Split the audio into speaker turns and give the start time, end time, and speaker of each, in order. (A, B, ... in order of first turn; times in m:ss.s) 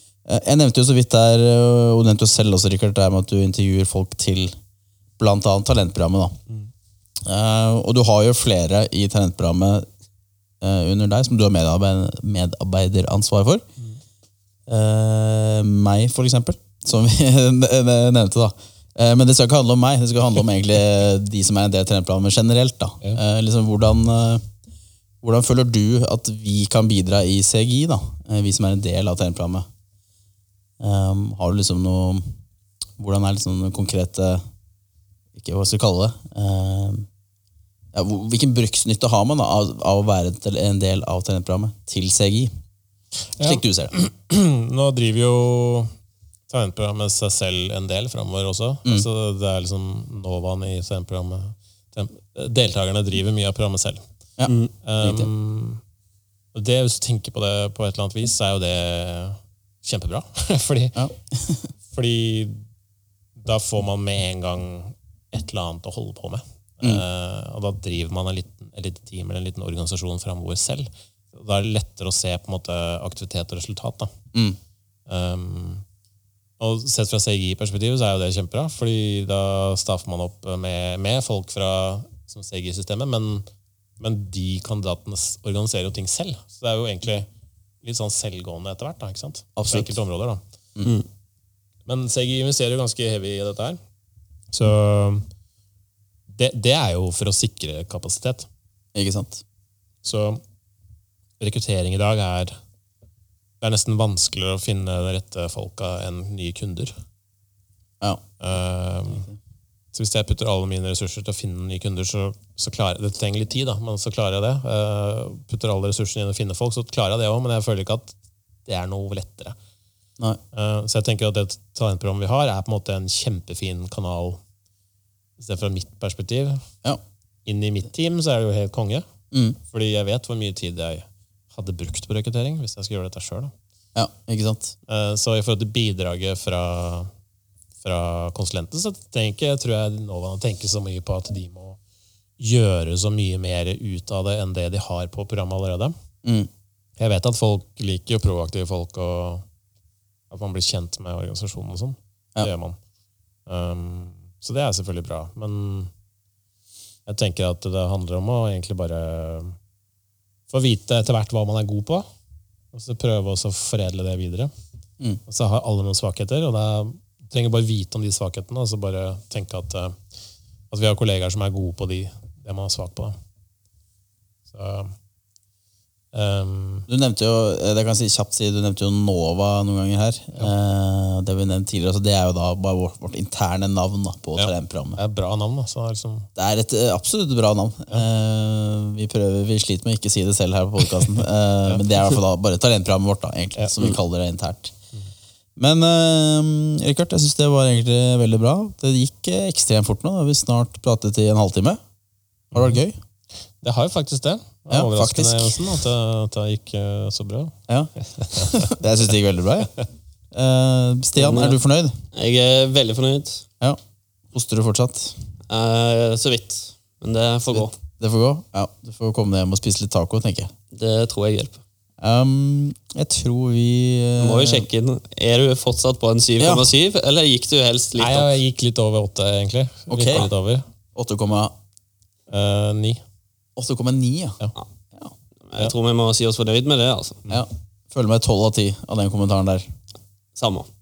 0:00.3-0:04.6 A
0:05.2-0:06.4 A
0:07.2-0:09.9 A
0:10.6-0:13.6 A
0:14.7-0:24.4 A
0:25.2-0:29.7 A
0:30.8-0:32.3 A
0:33.0-0:34.4 A
0:35.4-0:37.1 A
0:37.9-0:42.5 A
0:43.4-0:45.9 B
0:43.4-0:44.0 A
0:46.5-0:54.0 B
0:54.4-0:55.3 A
0:54.5-0:54.7 C
0:54.8-0:55.8 B
0:56.5-1:01.0 B
1:01.0-1:01.7 A
1:01.9-1:02.6 B
1:03.4-1:14.1 B
1:15.1-1:15.8 B
1:16.6-1:23.5 B
1:24.0-1:27.3 B
1:27.8-1:30.4 B
1:29.6-1:29.9 A
1:31.9-1:33.8 B
1:34.5-1:35.3 B
1:36.3-1:38.5 B
1:39.0-1:39.4 A
1:40.0-1:40.4 B
1:41.4-1:42.6 B
1:43.6-1:46.9 B
1:48.4-1:49.3 B
1:49.9-1:58.2 B
1:58.7-1:59.6 B
2:00.5-2:04.4 B
2:05.4-2:06.6 B
2:07.4-2:09.0 B
2:09.3-2:09.6 A
2:09.6-2:13.5 B
2:14.0-2:14.8 A
2:14.9-2:17.1 B
2:17.8-2:21.8 B
2:22.4-2:25.9 B
2:26.2-2:26.5 A
2:27.0-2:29.4 B
2:30.3-2:32.8 B
2:33.5-2:35.9 B
2:37.1-2:39.6 B
2:40.5-2:42.0 B
2:42.7-2:44.5 B
2:45.3-2:50.0 B
2:50.7-2:53.2 B
2:54.5-2:54.9 B
2:56.1-2:56.9 B
2:56.9-3:05.0 A
3:04.4-3:06.3 B
3:06.4-3:14.7 A
3:15.6-3:21.8 A
3:22.5-3:23.0 A
3:23.6-3:28.7 B
3:24.7-3:25.6 A
3:27.7-3:29.7 A
3:30.3-3:32.0 A
3:31.2-3:31.6 C
3:32.1-3:33.4 C
3:34.3-3:35.2 A
3:35.5-3:37.7 C
3:38.0-3:40.5 A
3:40.7-3:41.6 C
3:42.0-3:44.7 A
3:44.2-3:48.3 C
3:46.4-3:46.7 A
3:48.0-3:50.6 B
3:49.9-3:50.3 A
3:51.0-3:51.6 A
3:52.3-3:53.0 B
3:53.6-3:54.4 A
3:55.5-3:57.2 C
3:57.3-3:59.7 A
4:00.4-4:00.7 C